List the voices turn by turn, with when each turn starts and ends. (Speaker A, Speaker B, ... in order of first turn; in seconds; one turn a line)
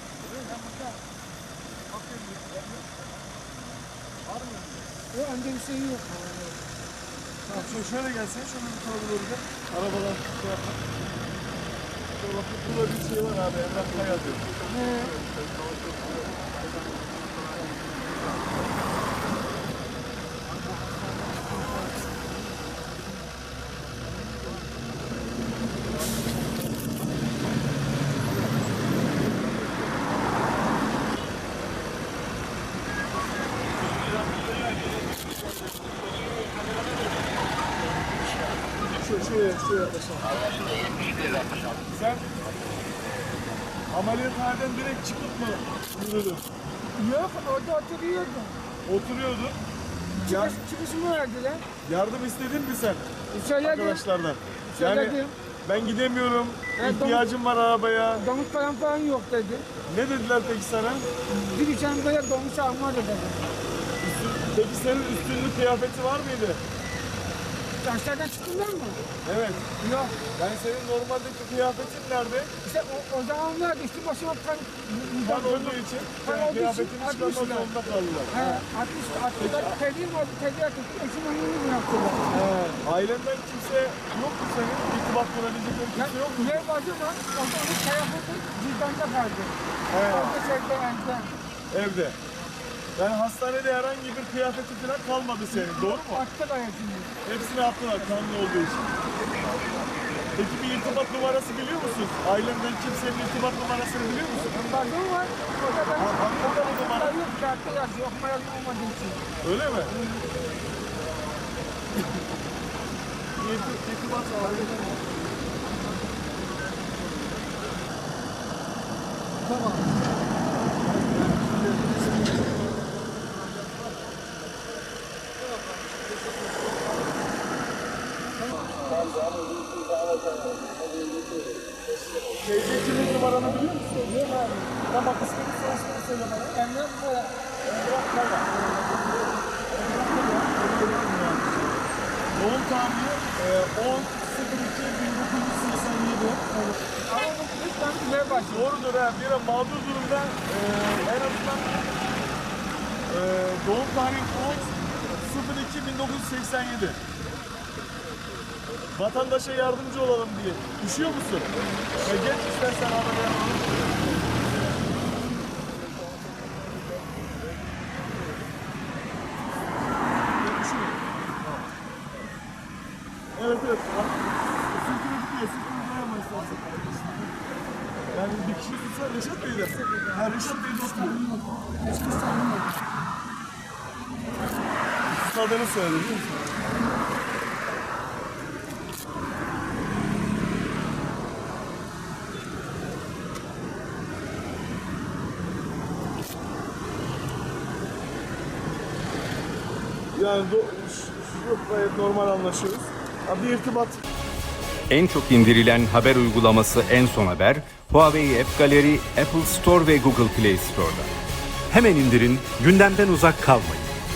Speaker A: 0.2-0.5
Speaker B: 0.4-1.0
Speaker A: 1.9-2.8
Speaker A: 4.3-4.8
Speaker B: 5.1-6.5
Speaker A: 7.5-10.8
Speaker A: 12.2-14.5
Speaker B: 14.7-15.2
Speaker A: 38.9-40.4
Speaker A: 41.9-42.3
Speaker A: 43.9-46.4
Speaker B: 47.0-48.6
Speaker A: 48.9-49.6
Speaker B: 50.2-51.6
Speaker A: 50.2-50.6
Speaker A: 51.8-53.0
Speaker B: 53.3-54.0
Speaker A: 53.6-58.2
Speaker B: 54.7-55.4
Speaker B: 56.8-57.2
Speaker B: 58.2-59.7
Speaker A: 59.9-61.1
Speaker B: 61.3-63.4
Speaker A: 64.0-66.6
Speaker B: 67.8-69.0
Speaker A: 69.2-69.7
Speaker B: 69.8-70.2
Speaker A: 70.3-72.5
Speaker B: 72.6-77.7
Speaker A: 75.2-78.6
Speaker B: 78.3-82.2
Speaker A: 79.4-79.8
Speaker A: 82.3-86.7
Speaker B: 85.9-91.3
Speaker A: 89.9-90.4
Speaker A: 91.7-92.2
Speaker A: 93.0-96.2
Speaker B: 95.5-97.2
Speaker A: 97.2-98.9
Speaker A: 100.3-104.7
Speaker B: 104.4-109.2
Speaker A: 106.0-107.2
Speaker A: 109.4-110.0
Speaker A: 113.4-115.0
Speaker B: 128.7-129.4
Speaker A: 132.2-136.6
Speaker B: 136.5-137.4
Speaker A: 137.6-138.5
Speaker A: 139.7-141.7
Speaker A: 142.3-146.4
Speaker B: 146.5-148.8
Speaker A: 148.3-152.0
Speaker A: 153.1-157.0
Speaker A: 158.9-164.1
Speaker A: 170.4-171.0
Speaker A: 173.3-177.1
Speaker A: 178.1-181.2
Speaker B: 179.7-182.8
Speaker A: 185.1-186.5
Speaker A: 200.2-204.0
Speaker C: 204.9-211.1
Speaker D: 211.7-213.9